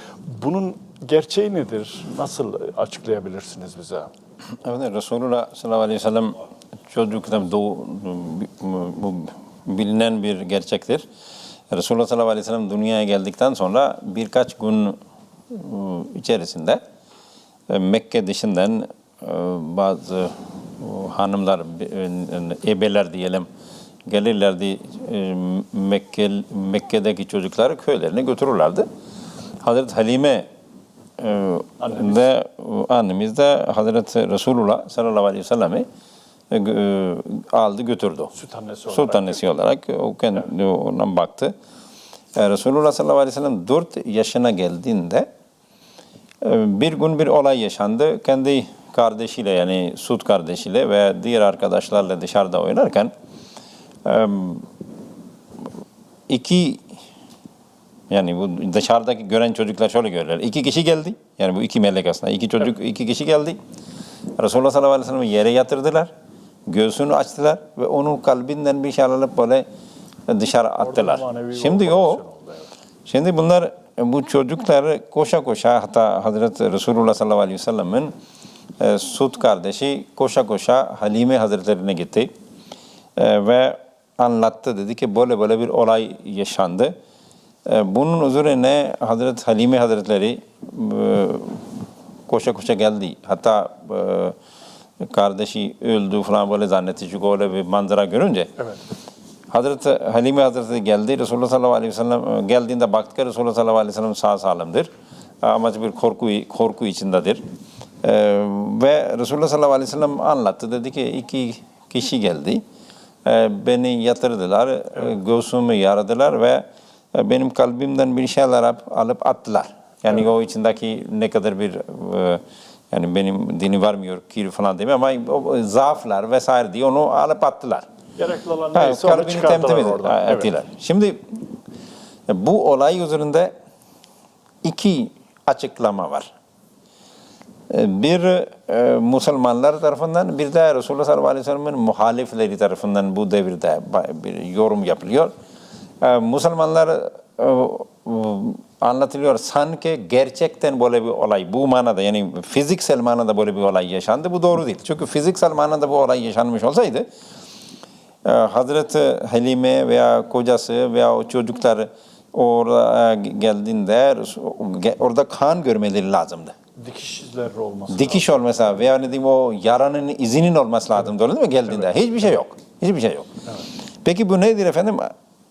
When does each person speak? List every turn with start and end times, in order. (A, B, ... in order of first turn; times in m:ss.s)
0:00.3-0:04.1 A
0:04.6-0:06.4 B
0:06.9-0:11.0 B
0:11.7-0:15.0 B
0:15.5-0:16.8 B
0:17.7-0:23.5 B
0:24.1-0:28.8 B
0:29.6-0:30.5 B
0:31.2-0:35.8 B
0:31.8-0:32.2 A
0:36.5-0:38.3 B
0:38.3-0:39.4 A
0:38.9-0:41.5 B
0:42.3-0:45.3 B
0:46.4-0:53.1 B
0:54.0-0:54.7 B
0:56.3-0:56.8 B
0:58.1-1:03.6 B
1:04.4-1:06.1 B
1:06.7-1:09.6 B
1:10.3-1:12.2 B
1:10.8-1:12.7 A
1:13.1-1:18.1 B
1:18.8-1:22.3 B
1:23.2-1:26.9 B
1:27.6-1:31.7 B
1:32.3-1:34.3 B
1:35.0-1:38.5 B
1:39.5-1:44.9 B
1:45.4-1:47.4 B
1:48.0-1:52.6 B
1:53.2-2:07.8 B
2:08.2-2:10.5 A
2:08.7-2:11.4 B
2:12.3-2:13.5 B
2:14.6-2:16.3 B
2:17.7-2:25.3 B
2:26.0-2:37.0 B
2:38.2-2:46.5 B
2:46.8-2:48.3 A
2:47.9-2:53.3 B
2:54.0-2:55.1 B